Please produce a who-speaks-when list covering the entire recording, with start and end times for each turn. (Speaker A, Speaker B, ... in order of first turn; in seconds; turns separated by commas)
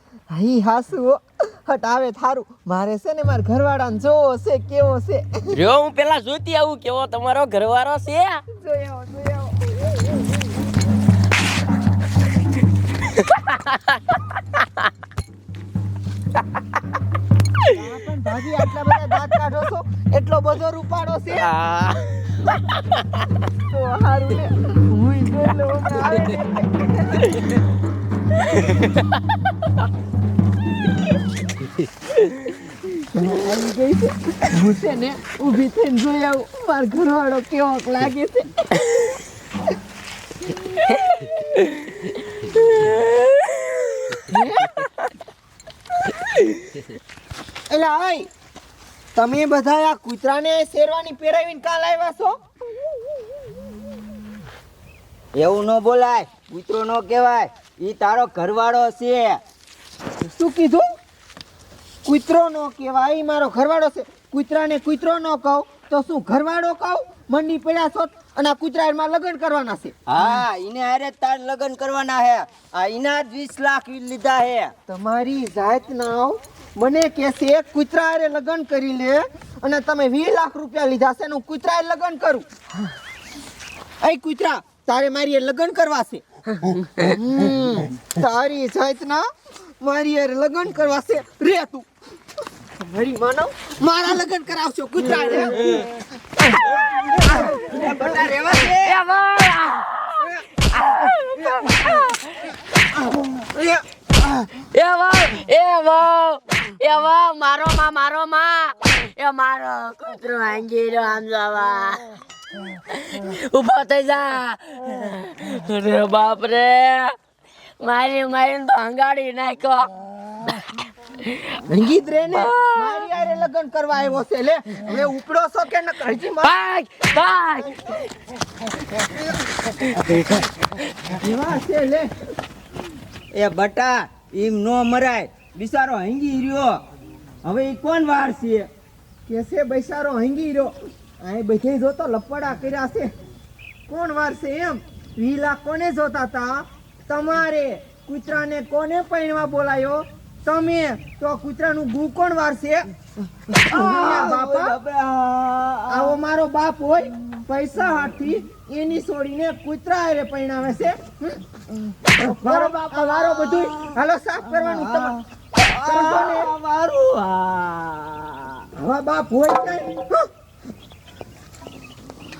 Speaker A: 0.3-5.6, Speaker B: 5.6-8.3, Speaker A: 8.5-9.6, Speaker C: 13.3-13.8, Speaker A: 17.7-21.5, Speaker B: 21.5-22.0, Speaker A: 23.6-27.3, Speaker A: 33.0-38.9, Speaker A: 44.3-44.9, Speaker A: 47.7-48.3, Speaker A: 49.1-52.4, Speaker D: 55.4-59.4, Speaker A: 60.2-60.9, Speaker A: 62.0-70.3, Speaker D: 70.1-74.7, Speaker A: 74.9-82.5, Speaker A: 84.0-86.2, Speaker A: 87.0-89.2, Speaker A: 89.8-91.9, Speaker A: 92.8-96.0, Speaker A: 96.7-97.8, Speaker D: 97.6-99.0, Speaker C: 98.8-102.3, Speaker C: 104.6-112.0, Speaker C: 112.9-117.2, Speaker C: 117.8-119.9, Speaker A: 121.7-126.5, Speaker C: 122.4-123.1, Speaker C: 126.4-127.7, Speaker A: 131.2-132.1, Speaker D: 133.3-136.8, Speaker D: 137.4-138.7, Speaker A: 139.3-143.1, Speaker A: 143.9-152.9, Speaker D: 153.5-156.2, Speaker A: 153.7-154.8, Speaker A: 155.9-165.2, Speaker D: 162.2-163.9, Speaker D: 164.5-168.7, Speaker A: 165.8-166.5, Speaker A: 168.8-170.2